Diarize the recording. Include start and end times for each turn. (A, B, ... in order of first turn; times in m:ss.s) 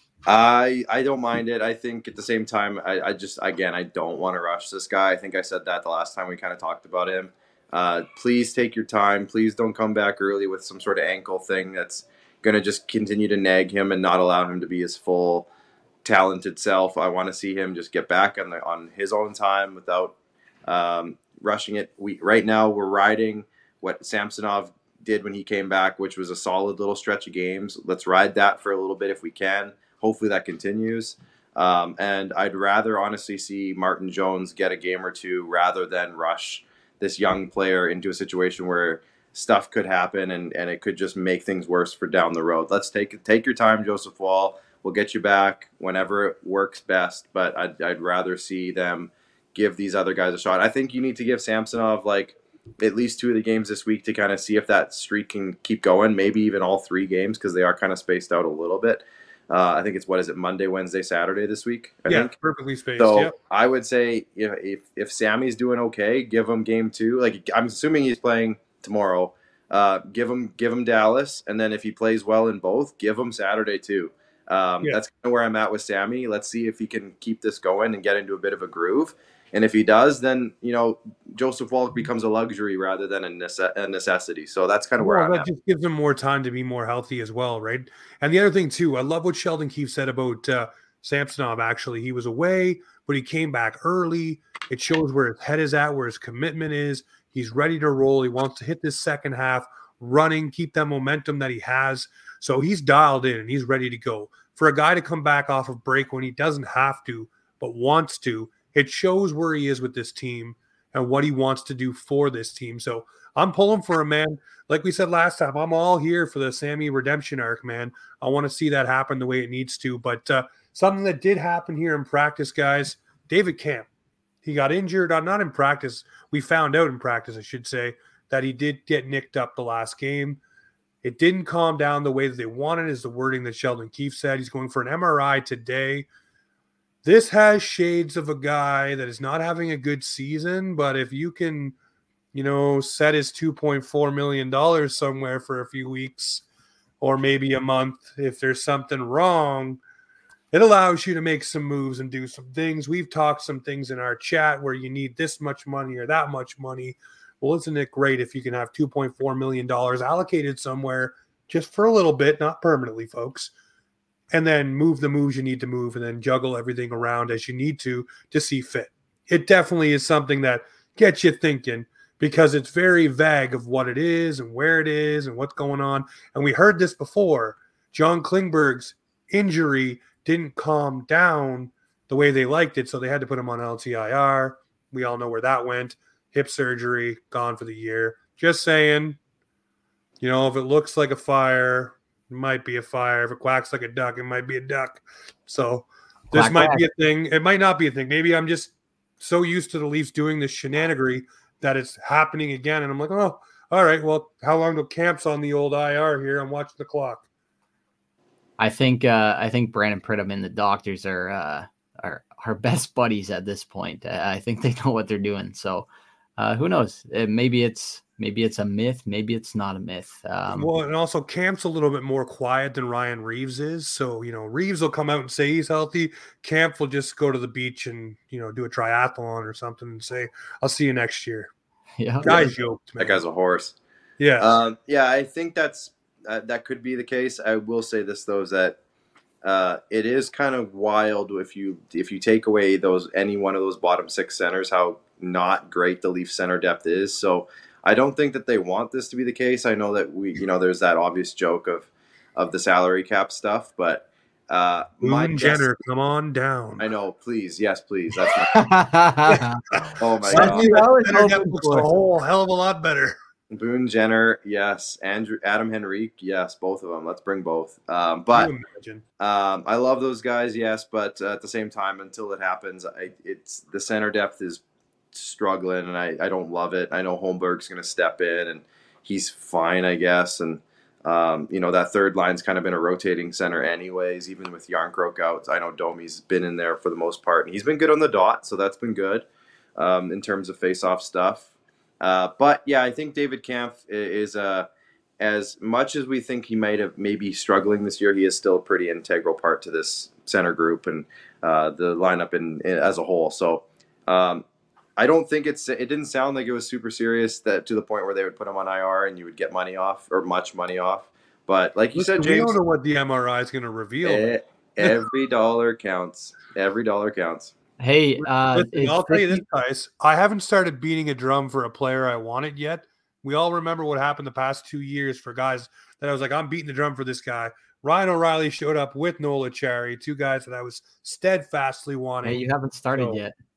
0:00.3-0:15.5 A
0:16.0-0:20.1 A
0:20.7-1:02.3 A
1:02.1-1:03.4 B
1:03.0-1:25.5 A
1:25.0-2:03.9 B
2:04.4-2:10.4 B
2:11.0-2:16.1 B
2:17.0-2:21.8 B
2:22.3-2:26.4 B
2:27.0-2:29.8 B
2:30.5-2:43.5 B
2:44.3-3:09.2 B
3:10.2-3:27.2 B
3:16.3-3:16.9 C
3:28.6-3:40.7 C
3:40.5-3:51.5 B
3:52.0-3:52.5 C
3:52.2-3:53.2 B
3:53.0-3:53.8 A
3:54.2-3:54.5 B
3:54.4-3:58.8 A
3:59.4-4:15.7 A
4:15.0-4:16.8 B
4:16.8-4:18.5 A
4:18.5-4:19.6 C
4:19.3-4:23.2 B
4:20.0-4:20.7 A
4:20.3-4:21.9 C
4:23.5-4:28.5 A
4:28.3-4:29.0 B
4:29.2-4:34.6 A
4:35.1-4:49.3 A
4:49.8-4:51.5 A
4:52.0-4:54.7 A
4:55.2-5:04.4 A
5:05.0-5:12.6 A
5:11.9-5:14.9 B
5:14.0-5:17.5 A
5:17.8-5:19.4 C
5:18.2-5:33.2 B
5:32.2-5:33.3 C